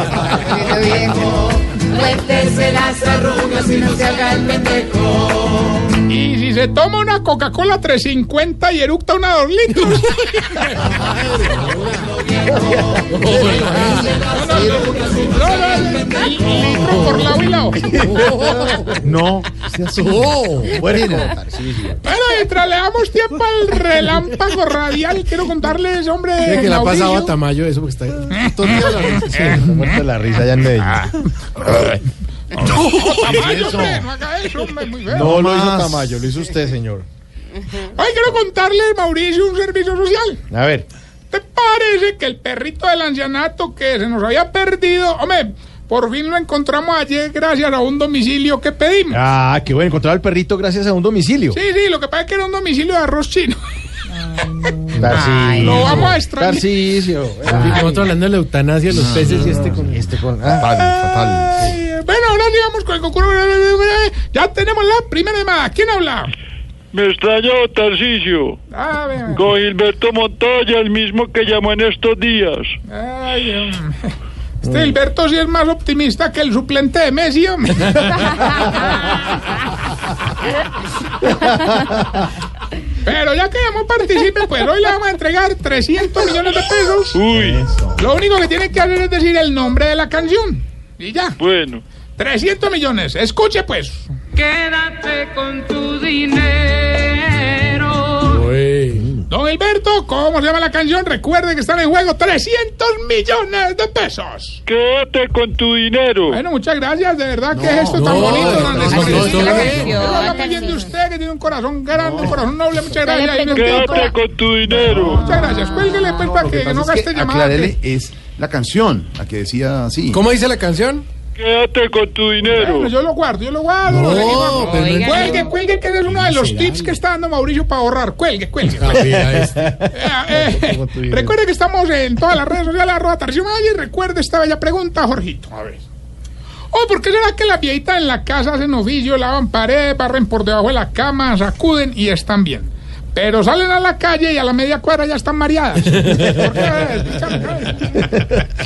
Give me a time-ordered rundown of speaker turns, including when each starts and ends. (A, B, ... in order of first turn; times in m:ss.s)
0:00.4-0:05.6 A
0:06.1-0:10.6 B
0:13.1-0:14.2 C
0:13.1-0:14.9 D
0:13.4-0:17.9 B
0:18.0-0:18.4 C
0:19.0-0:20.5 E
0:20.0-0:20.6 C
0:20.6-0:22.0 D
0:22.0-0:27.4 B
0:26.4-0:29.8 C
0:28.4-0:30.0 B
0:29.3-0:31.0 D
0:30.8-0:31.8 B
0:32.5-0:35.3 B
0:33.1-0:34.1 E
0:35.1-0:37.0 D
0:35.1-0:36.1 E
0:37.8-0:40.4 B
0:40.5-0:40.9 D
0:41.3-0:49.2 B
0:49.1-0:51.6 D
0:51.5-0:53.6 B
0:54.6-0:57.0 B
0:54.9-0:58.1 D
0:55.1-0:55.9 A
0:57.5-1:00.0 C
0:57.6-0:58.1 A
0:58.9-1:01.6 E
0:59.7-1:00.7 D
1:00.7-1:06.3 B
1:06.9-1:08.6 F
1:08.7-1:09.5 B
1:09.3-1:12.7 F
1:12.9-1:14.1 B
1:14.6-1:19.4 B
1:23.0-1:27.2 B
1:27.1-1:27.6 F
1:27.3-1:28.0 E
1:28.0-1:31.4 B
1:31.4-1:31.8 F
1:32.2-1:34.1 B
1:34.4-1:37.0 G
1:38.3-1:39.1 C
1:39.3-1:44.6 B
1:44.7-1:46.4 F
1:46.3-1:54.1 B
1:47.5-1:49.5 E
1:47.9-1:49.8 C
1:48.8-1:50.7 A
1:51.9-1:52.4 E
1:53.4-1:55.4 F
1:53.4-1:54.1 G
1:54.7-1:57.8 B
1:56.2-2:00.2 E
2:00.1-2:01.0 C
2:01.4-2:02.9 F
2:02.4-2:09.2 B
2:03.9-2:05.3 C
2:04.4-2:05.5 A
2:06.0-2:07.0 C
2:08.6-2:09.8 C
2:08.9-2:09.9 D
2:09.9-2:15.8 B
2:10.3-2:11.4 E
2:16.7-2:28.2 B